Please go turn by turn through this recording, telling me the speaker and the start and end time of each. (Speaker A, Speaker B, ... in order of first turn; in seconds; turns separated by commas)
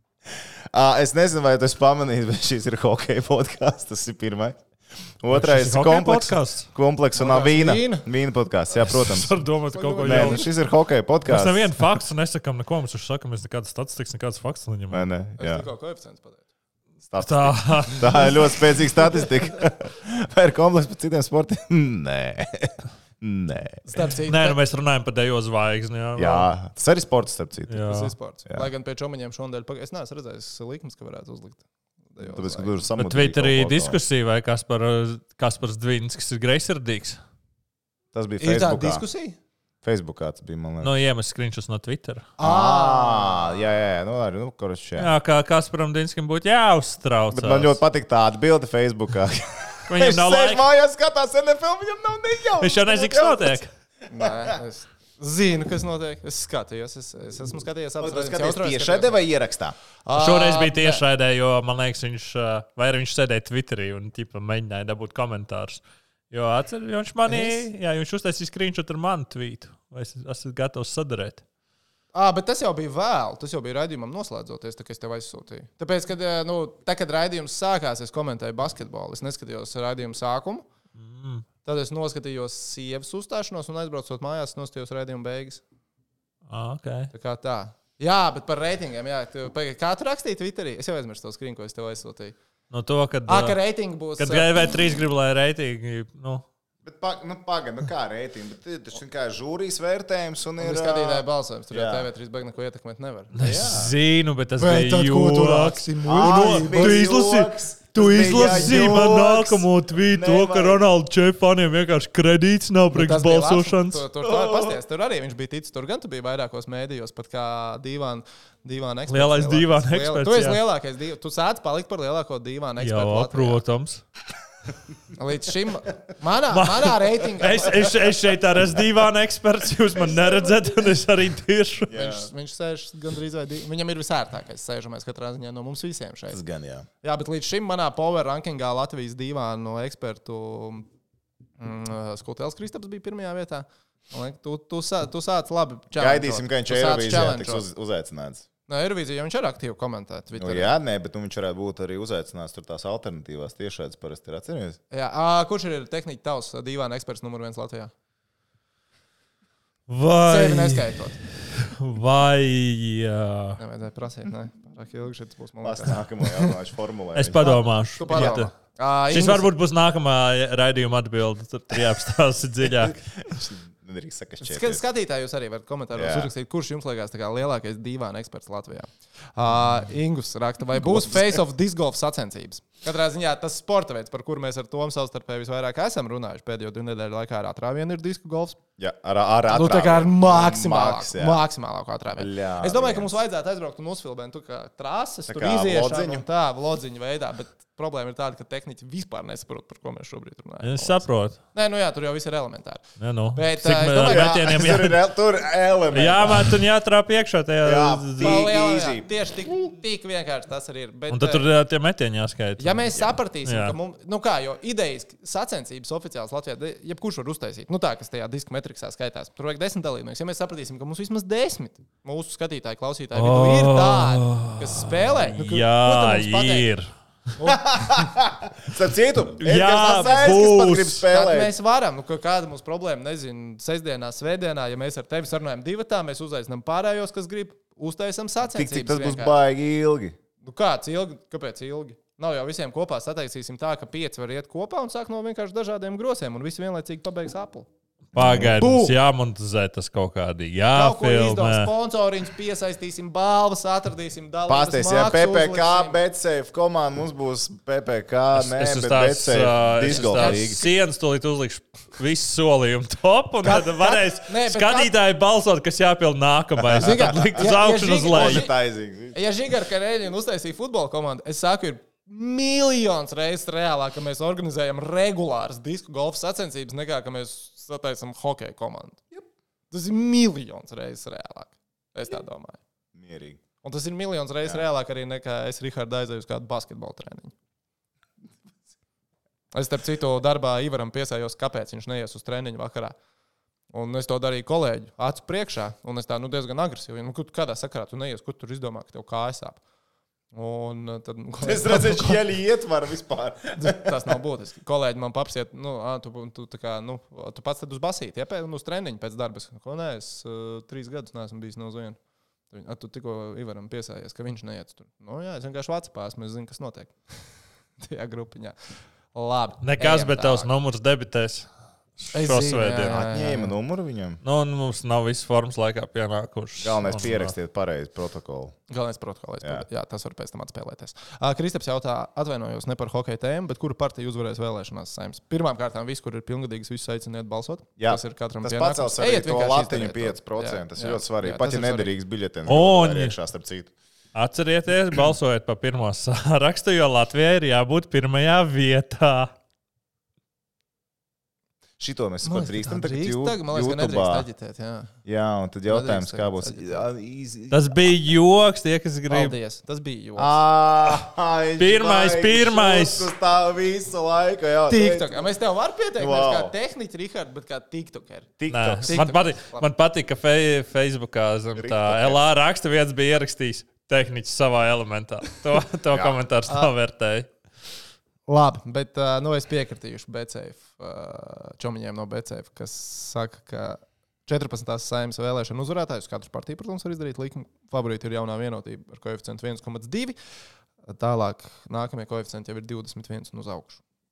Speaker A: 0.3-4.6, Speaker A: 5.2-9.3, Speaker B: 5.3-6.7, Speaker C: 7.1-8.1, Speaker B: 8.9-10.5, Speaker C: 9.7-10.5, Speaker A: 10.0-11.7, Speaker B: 11.2-15.1, Speaker A: 14.9-15.7, Speaker C: 15.4-16.4, Speaker A: 17.1-23.8, Speaker B: 17.2-18.5, Speaker C: 23.9-24.6, Speaker B: 24.3-26.5, Speaker A: 26.1-27.9, Speaker B: 27.7-28.1, Speaker C: 27.8-32.8, Speaker A: 32.2-34.0, Speaker B: 33.0-37.2, Speaker A: 38.1-39.0, Speaker C: 38.4-39.4, Speaker A: 39.8-40.9, Speaker B: 40.8-42.3, Speaker C: 42.4-43.6, Speaker A: 42.4-45.1, Speaker B: 45.0-47.8, Speaker A: 47.3-53.6, Speaker B: 49.9-50.6, Speaker B: 52.6-53.7, Speaker C: 54.1-59.2, Speaker A: 58.0-59.8, Speaker C: 60.0-61.0, Speaker B: 60.1-71.4, Speaker C: 67.3-67.6, Speaker C: 72.1-80.7, Speaker B: 81.0-81.4, Speaker C: 81.6-85.6, Speaker B: 86.5-87.1, Speaker C: 87.1-92.3, Speaker B: 92.7-93.6, Speaker C: 93.3-94.8, Speaker B: 94.2-96.4, Speaker A: 96.8-102.0, Speaker C: 100.6-103.4, Speaker B: 103.3-114.0, Speaker A: 103.4-103.9, Speaker C: 104.6-107.0, Speaker A: 106.0-110.8, Speaker C: 108.0-109.3, Speaker C: 112.9-123.6, Speaker A: 114.2-114.7, Speaker B: 119.1-120.6, Speaker B: 122.8-124.0, Speaker C: 125.1-127.9, Speaker B: 126.5-131.9, Speaker A: 131.9-132.3, Speaker C: 131.9-136.4, Speaker A: 136.3-136.9, Speaker C: 137.0-140.9, Speaker C: 141.6-147.7, Speaker A: 145.9-148.4, Speaker C: 148.7-150.7, Speaker A: 150.3-154.8, Speaker C: 154.9-157.9, Speaker B: 159.9-163.6, Speaker C: 160.2-161.2, Speaker C: 163.6-166.5, Speaker A: 165.6-168.4, Speaker B: 167.1-168.5, Speaker C: 167.4-169.5, Speaker B: 169.1-173.0, Speaker A: 172.6-174.8, Speaker C: 174.4-188.6, Speaker A: 175.9-176.3, Speaker A: 180.8-181.4, Speaker A: 188.8-191.4, Speaker C: 189.5-204.5, Speaker A: 192.2-193.1, Speaker A: 195.3-196.2, Speaker B: 200.6-201.4, Speaker B: 203.0-205.0, Speaker A: 204.0-206.6, Speaker B: 205.9-208.4, Speaker A: 207.6-209.1, Speaker C: 208.2-211.5, Speaker B: 211.1-213.7, Speaker C: 212.6-226.7, Speaker B: 223.1-226.9, Speaker C: 227.4-228.1, Speaker A: 227.4-231.5, Speaker B: 229.4-231.0, Speaker C: 231.1-239.4, Speaker A: 238.5-240.2, Speaker C: 240.4-247.7, Speaker B: 248.1-251.7, Speaker A: 248.1-248.6, Speaker C: 248.6-248.9, Speaker C: 250.7-256.0, Speaker A: 254.5-260.6, Speaker B: 258.3-268.4, Speaker C: 259.9-260.6, Speaker C: 263.4-264.9, Speaker A: 266.6-269.2, Speaker C: 266.7-268.5, Speaker C: 269.1-282.6, Speaker A: 282.9-283.4, Speaker C: 283.6-287.3, Speaker C: 289.5-292.9, Speaker C: 293.7-299.6, Speaker C: 300.3-302.2, Speaker A: 301.4-304.0, Speaker C: 303.6-312.0, Speaker C: 312.5-317.2, Speaker C: 317.8-320.5, Speaker B: 319.6-323.1, Speaker C: 322.1-323.6, Speaker A: 323.1-324.2, Speaker B: 324.2-327.3, Speaker A: 326.6-328.6, Speaker C: 328.7-341.9, Speaker A: 337.8-343.7, Speaker B: 342.5-343.1, Speaker B: 344.1-349.3, Speaker A: 351.8-354.2, Speaker C: 352.2-354.9, Speaker A: 355.0-357.8, Speaker C: 355.7-356.8, Speaker B: 357.5-359.3, Speaker C: 359.1-360.4, Speaker A: 360.2-365.3, Speaker B: 361.6-363.1, Speaker C: 364.7-369.7, Speaker A: 366.0-366.5, Speaker A: 368.4-369.0, Speaker B: 368.5-377.3, Speaker A: 371.6-372.2, Speaker A: 375.9-376.2, Speaker C: 378.3-390.1, Speaker C: 390.8-393.8